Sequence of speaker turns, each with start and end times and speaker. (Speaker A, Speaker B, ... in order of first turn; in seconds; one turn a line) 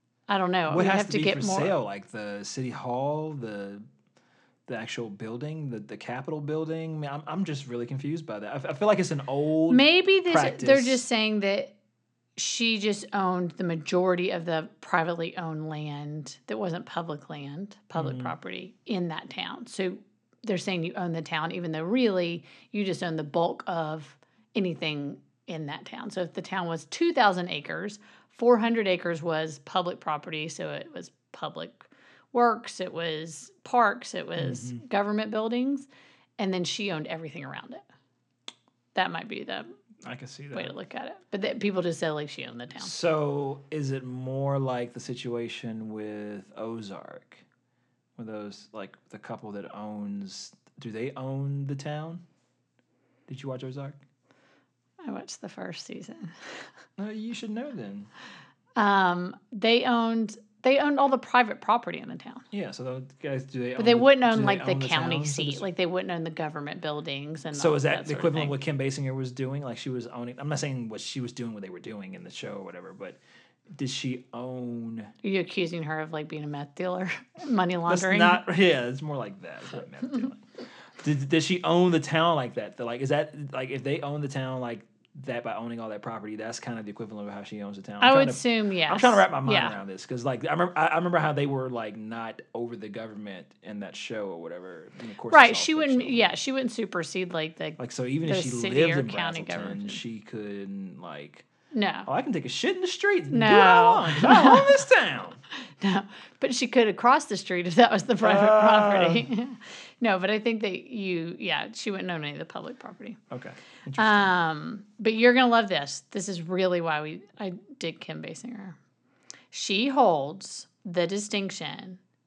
Speaker A: 0.3-1.7
Speaker B: 0.7-3.8
Speaker B: 4.7-11.0
Speaker A: 9.7-11.7
Speaker A: 12.3-37.8
Speaker B: 17.9-18.3
Speaker B: 34.4-34.8
Speaker A: 38.9-39.7
Speaker B: 40.0-40.7
Speaker A: 40.5-42.9
Speaker B: 42.8-47.4
Speaker B: 48.2-52.2
Speaker B: 53.3-54.0
Speaker A: 55.0-56.3
Speaker B: 57.0-58.1
Speaker A: 58.8-62.4
Speaker B: 62.5-65.7
Speaker A: 63.8-68.5
Speaker B: 67.5-73.2
Speaker B: 73.7-75.1
Speaker A: 75.2-78.4
Speaker B: 77.9-96.3
Speaker A: 88.0-89.8
Speaker A: 95.3-100.0
Speaker B: 97.8-101.4
Speaker A: 101.7-102.1
Speaker B: 102.1-105.4
Speaker A: 103.3-104.8
Speaker A: 105.8-113.2
Speaker B: 108.2-109.3
Speaker B: 113.3-114.3
Speaker A: 114.0-118.8
Speaker A: 119.5-122.0